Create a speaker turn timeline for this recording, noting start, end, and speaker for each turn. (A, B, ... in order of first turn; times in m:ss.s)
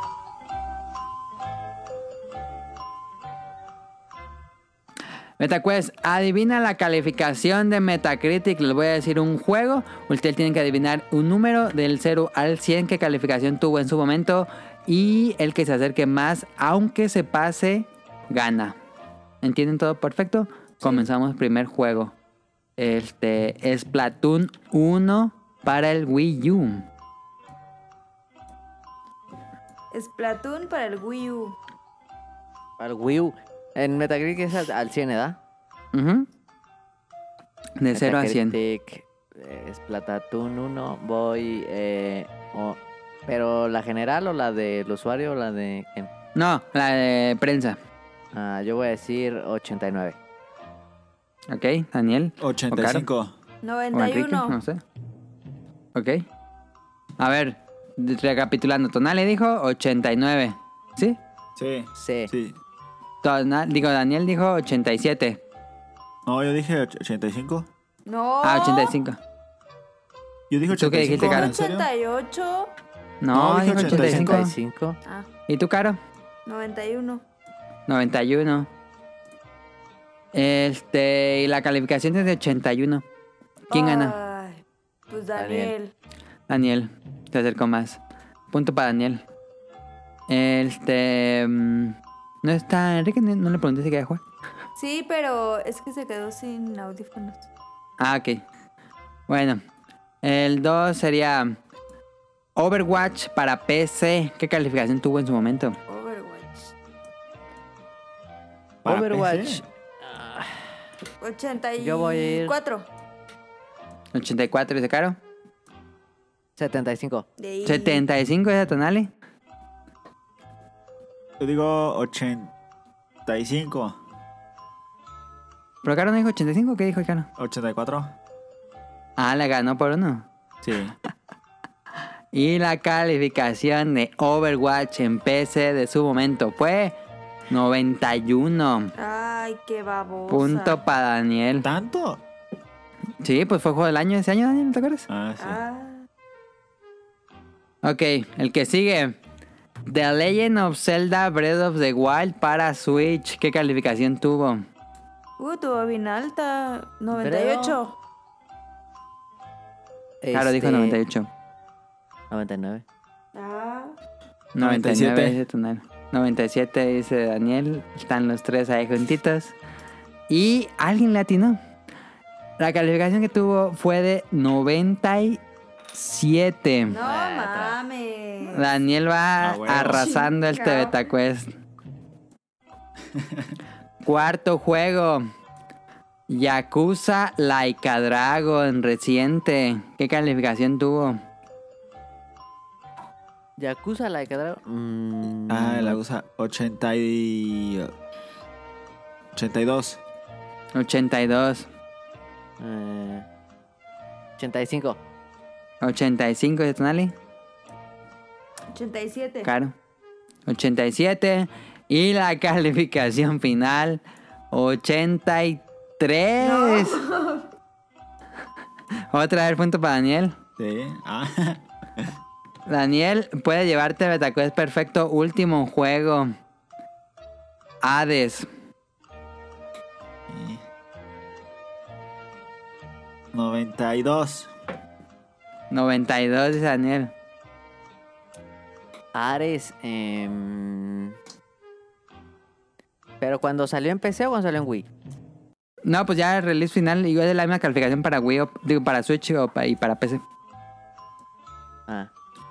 0:05.4-0:18.8 A
0:19.4-0:22.1 A
0:22.8-0:26.8 A
0:29.9-0:31.6 B
0:32.8-0:35.4 C
0:35.9-0:36.3 A
0:37.8-0:38.6 A
0:37.9-0:46.1 C
0:46.4-0:47.8 A
0:48.3-0:50.2 C
0:51.5-0:53.1 A
0:52.4-0:53.3 D
0:53.6-0:54.6 B
0:53.9-0:54.8 A
0:55.9-0:56.2 A
0:57.2-1:01.2 A
1:01.6-1:02.6 D
1:02.0-1:02.3 C
1:03.2-1:05.4 A
1:06.2-1:07.7 D
1:08.1-1:09.0 B
1:08.4-1:09.2 A
1:10.5-1:11.9 D
1:10.7-1:11.5 A
1:11.2-1:12.7 B
1:13.2-1:14.5 A
1:13.3-1:14.5 D
1:13.8-1:15.0 C
1:15.5-1:16.0 A
1:16.4-1:17.2 B
1:17.9-1:18.7 A
1:20.3-1:23.0 A
1:23.7-1:24.2 A
1:23.7-1:25.9 B
1:25.3-1:25.7 C
1:26.5-1:28.0 A
1:28.5-1:29.2 A
1:30.3-1:34.2 A
1:34.8-1:37.5 B
1:38.0-1:38.4 A
1:39.3-1:39.6 A
1:40.2-1:41.6 A
1:42.6-1:45.8 A
1:45.9-1:46.7 B
1:48.8-1:49.6 D
1:48.8-1:50.7 C
1:51.2-1:52.9 B
1:51.8-1:52.6 C
1:54.1-1:55.2 A
1:56.6-1:57.2 C
1:57.4-1:58.0 B
1:57.6-1:59.1 A
2:01.4-2:02.5 D
2:03.2-2:04.0 D
2:05.8-2:07.3 A
2:07.4-2:08.1 D
2:09.2-2:10.2 A
2:10.6-2:10.9 D
2:12.3-2:16.9 A
2:17.5-2:18.9 A
2:19.0-2:20.8 B
2:20.3-2:21.7 A
2:21.6-2:22.2 D
2:23.2-2:25.1 A
2:25.1-2:25.6 D
2:25.4-2:26.0 B
2:27.8-2:29.2 A
2:29.8-2:34.6 A
2:35.4-2:37.9 B
2:37.1-2:37.8 C
2:40.2-2:41.0 C
2:40.3-2:41.3 A
2:42.3-2:42.8 C
2:43.3-2:44.0 B
2:44.5-2:49.6 A
2:44.6-2:45.4 D
2:50.3-2:51.6 A
2:52.6-2:55.4 A
2:55.9-2:57.0 A
2:56.9-2:58.7 B
2:57.0-2:57.8 C
2:58.5-3:01.5 A
2:59.4-3:00.1 D
2:59.9-3:01.1 B
3:03.1-3:03.6 D
3:04.0-3:05.2 A
3:06.3-3:11.2 A
3:13.6-3:16.0 C
3:15.5-3:17.9 D
3:19.3-3:20.0 D
3:20.7-3:21.7 A
3:22.6-3:23.2 C
3:24.4-3:25.0 C
3:25.8-3:27.1 A
3:28.7-3:29.5 B
3:29.4-3:29.7 A
3:30.5-3:37.0 A
3:36.4-3:37.5 B
3:39.1-3:40.4 A
3:40.6-3:42.1 D
3:42.7-3:46.3 A
3:47.8-3:48.5 A
3:50.3-3:50.6 D
3:53.3-3:54.5 D
3:55.7-3:57.1 A
3:59.1-4:01.2 C
4:03.2-4:04.9 C
4:05.8-4:10.2 A